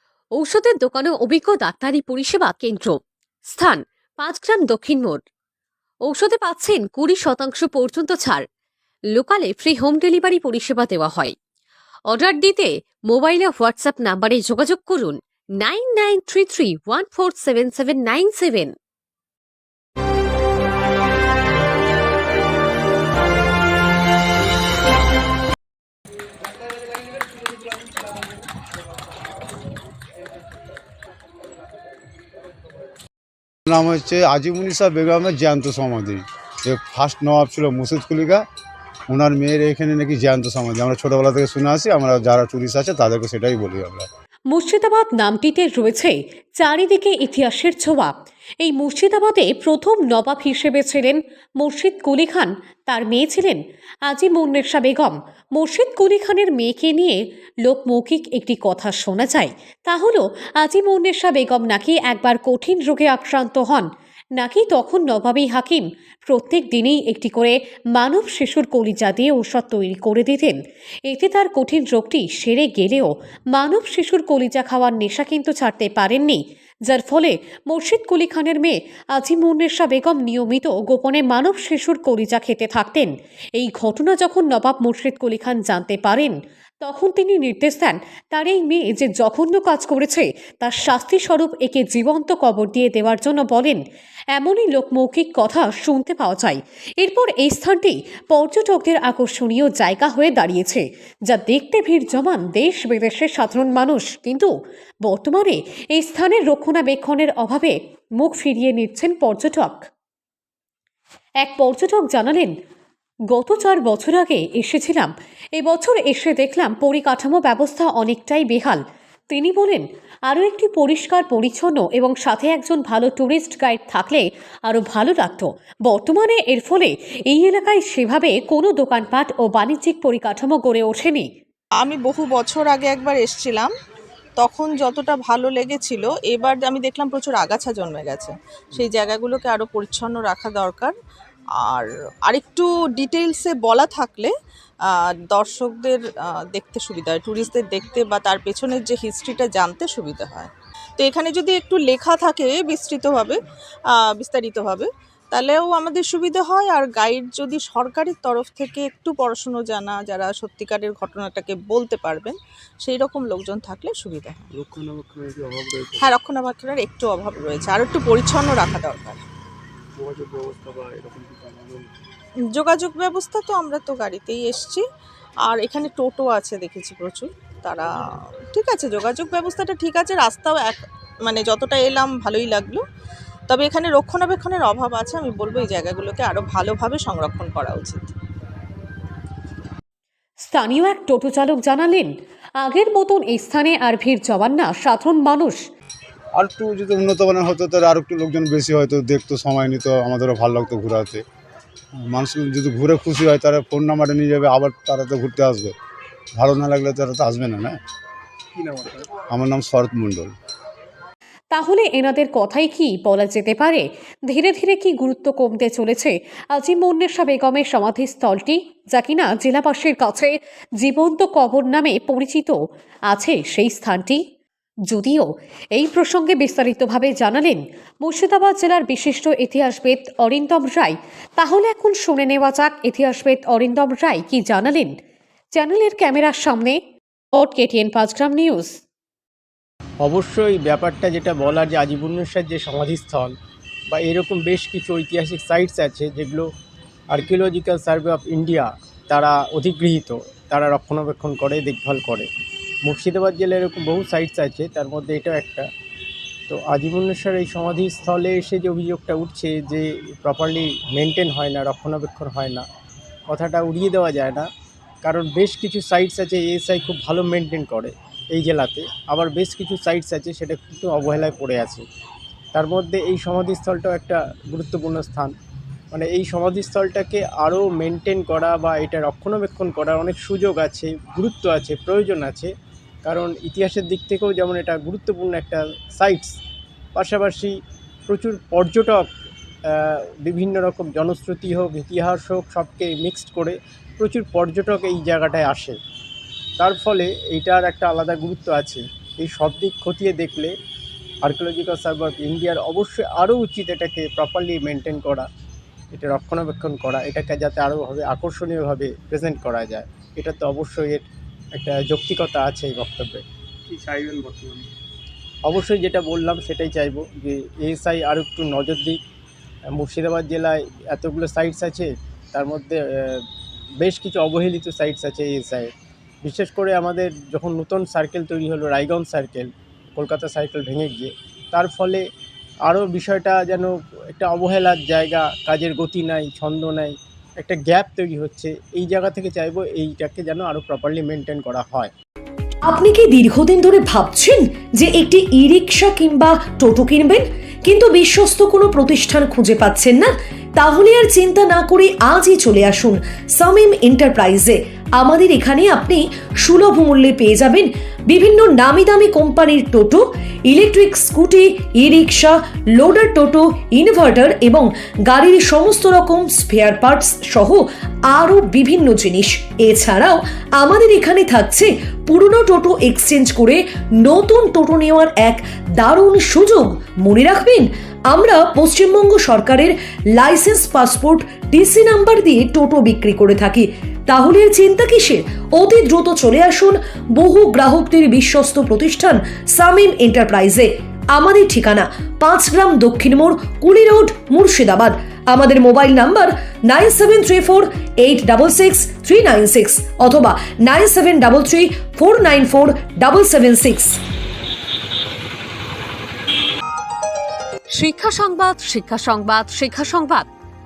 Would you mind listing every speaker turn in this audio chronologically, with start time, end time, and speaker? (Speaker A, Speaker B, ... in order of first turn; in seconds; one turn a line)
Speaker A: 0.3-5.2
Speaker A: 6.0-8.4
Speaker A: 9.1-11.3
Speaker A: 12.1-18.7
Speaker B: 33.7-38.4
Speaker B: 39.1-44.1
Speaker A: 44.5-70.6
Speaker A: 71.1-93.8
Speaker A: 94.3-104.5
Speaker A: 105.0-109.8
Speaker A: 111.4-112.5
Speaker A: 113.3-131.3
Speaker C: 131.8-133.7
Speaker C: 134.4-140.9
Speaker C: 141.6-144.3
Speaker C: 144.9-164.5
Speaker D: 164.6-166.1
Speaker C: 166.0-169.2
Speaker D: 170.0-171.8
Speaker C: 172.5-174.8
Speaker C: 175.4-182.8
Speaker C: 183.5-188.1
Speaker A: 190.4-195.6
Speaker B: 196.4-201.2
Speaker B: 202.1-205.7
Speaker B: 206.4-207.8
Speaker B: 209.3-210.3
Speaker A: 211.5-222.6
Speaker A: 223.1-224.2
Speaker A: 224.9-235.0
Speaker A: 235.6-236.8
Speaker A: 237.3-238.8
Speaker E: 240.0-243.3
Speaker E: 243.9-246.5
Speaker E: 247.1-252.3
Speaker E: 252.8-255.7
Speaker E: 256.5-262.7
Speaker E: 263.3-264.5
Speaker E: 265.0-271.9
Speaker E: 272.5-275.4
Speaker E: 275.9-282.5
Speaker E: 283.1-286.4
Speaker E: 287.0-287.6
Speaker E: 288.1-289.1
Speaker E: 289.7-295.8
Speaker E: 296.6-300.5
Speaker E: 301.2-305.3
Speaker E: 305.9-313.2
Speaker D: 313.7-314.6
Speaker E: 315.4-319.0
Speaker E: 319.7-323.2
Speaker E: 323.8-325.7
Speaker E: 326.2-332.0
Speaker E: 332.7-341.9
Speaker F: 342.6-404.0
Speaker A: 407.7-410.3